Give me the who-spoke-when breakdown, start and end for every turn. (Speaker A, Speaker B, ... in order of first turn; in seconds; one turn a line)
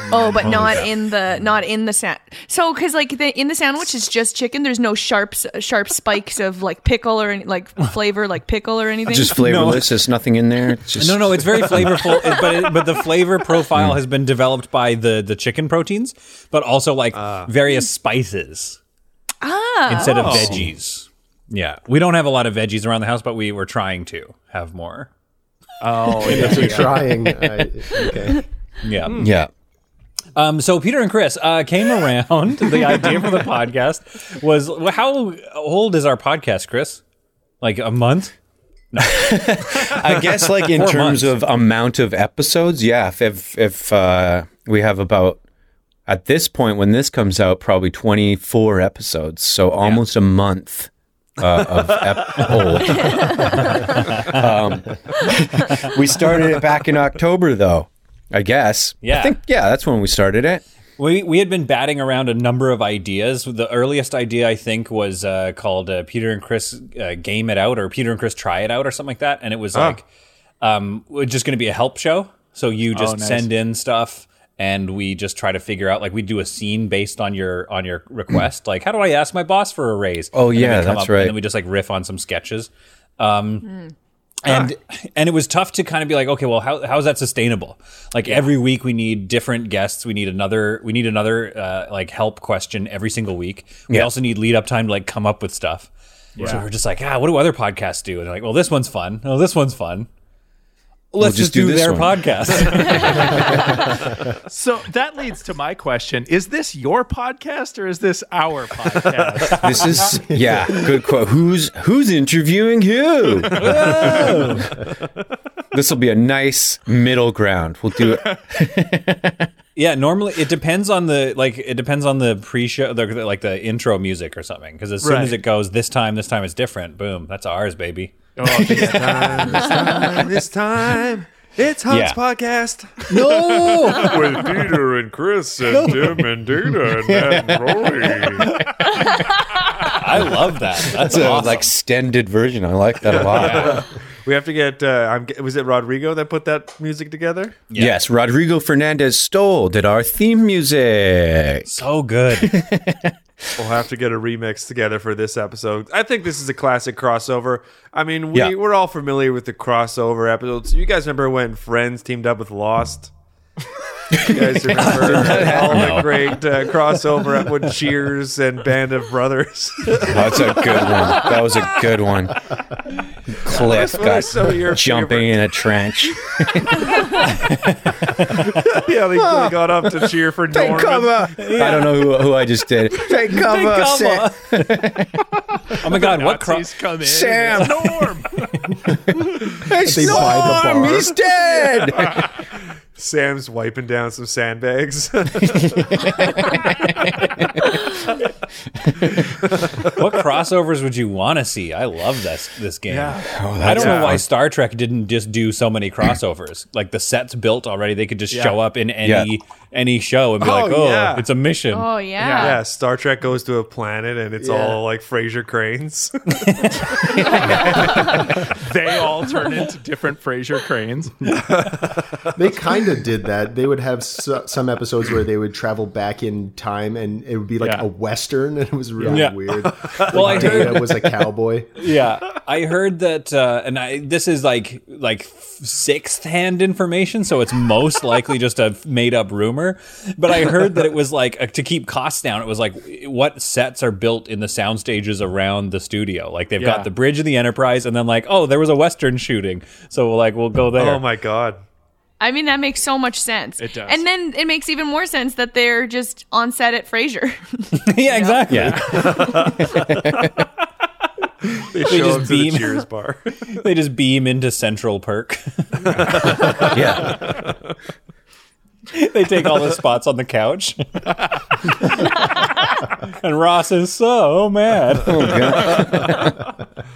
Speaker A: 0.1-9.4
Speaker B: 0.4-0.9
Speaker C: 9.1-12.1
Speaker B: 9.4-10.0
Speaker B: 11.0-18.8
Speaker A: 12.2-12.8
Speaker D: 17.1-17.5
Speaker A: 19.4-20.5
Speaker B: 19.9-25.1
Speaker E: 20.0-20.6
Speaker E: 25.8-27.0
Speaker B: 26.2-27.0
Speaker F: 26.2-28.4
Speaker B: 28.8-29.3
Speaker C: 29.2-29.5
Speaker B: 30.4-37.0
Speaker B: 37.6-38.3
Speaker B: 38.9-39.4
Speaker C: 39.1-45.4
Speaker B: 40.7-41.4
Speaker C: 46.1-60.6
Speaker D: 51.4-53.2
Speaker B: 54.0-54.5
Speaker B: 59.0-59.4
Speaker B: 61.0-70.1
Speaker D: 69.7-70.0
Speaker B: 70.6-83.7
Speaker E: 72.9-73.5
Speaker C: 80.3-81.4
Speaker B: 84.4-100.1
Speaker E: 96.4-96.7
Speaker B: 101.1-103.9
Speaker C: 101.2-103.5
Speaker E: 104.5-110.1
Speaker D: 109.1-109.4
Speaker C: 109.4-114.6
Speaker F: 110.1-110.6
Speaker E: 113.5-114.6
Speaker B: 113.6-114.7
Speaker C: 115.7-119.5
Speaker B: 119.8-128.2
Speaker E: 125.0-125.4
Speaker E: 128.4-129.1
Speaker C: 128.5-130.2
Speaker D: 128.6-138.6
Speaker C: 131.9-132.2
Speaker B: 133.1-134.4
Speaker B: 135.7-136.3
Speaker C: 136.8-138.5
Speaker B: 138.4-141.7
Speaker C: 140.2-143.9
Speaker D: 143.1-147.6
Speaker B: 147.7-148.0
Speaker C: 147.7-151.7
Speaker B: 151.7-152.6
Speaker C: 152.3-153.2
Speaker D: 153.6-163.1
Speaker C: 164.1-166.4
Speaker D: 164.2-170.9
Speaker B: 165.1-166.0
Speaker C: 170.0-172.4
Speaker C: 173.3-178.4
Speaker D: 173.5-175.4
Speaker D: 178.3-181.3
Speaker C: 179.0-185.3
Speaker B: 181.3-182.2
Speaker B: 183.0-184.7
Speaker B: 185.8-186.7
Speaker E: 185.8-189.6
Speaker C: 187.0-188.1
Speaker C: 189.2-192.3
Speaker F: 189.7-191.2
Speaker E: 192.0-192.3
Speaker D: 192.9-196.6
Speaker C: 195.5-198.0
Speaker C: 198.8-199.3
Speaker D: 199.6-199.9
Speaker B: 199.9-211.9
Speaker D: 202.9-203.2
Speaker C: 203.2-204.3
Speaker D: 203.7-204.2
Speaker E: 208.3-208.6
Speaker C: 209.0-209.3
Speaker D: 210.4-211.3
Speaker A: 211.7-212.6
Speaker E: 212.2-212.6
Speaker D: 212.4-216.3
Speaker F: 214.4-214.8
Speaker B: 216.6-217.1
Speaker A: 217.4-218.0
Speaker E: 218.4-221.4
Speaker D: 221.5-222.2
Speaker F: 222.3-231.7
Speaker E: 227.6-227.9
Speaker E: 229.0-229.3
Speaker B: 229.1-251.0
Speaker D: 229.8-230.8
Speaker E: 246.6-246.9
Speaker D: 250.8-251.6
Speaker A: 252.2-259.5
Speaker E: 253.6-254.0
Speaker B: 257.9-258.9
Speaker C: 258.5-260.4
Speaker D: 258.9-260.2
Speaker D: 261.5-263.5
Speaker B: 261.9-262.9
Speaker B: 263.6-266.8
Speaker D: 265.9-267.5
Speaker C: 266.7-267.4
Speaker B: 268.9-275.7
Speaker C: 275.0-276.4
Speaker D: 275.7-276.2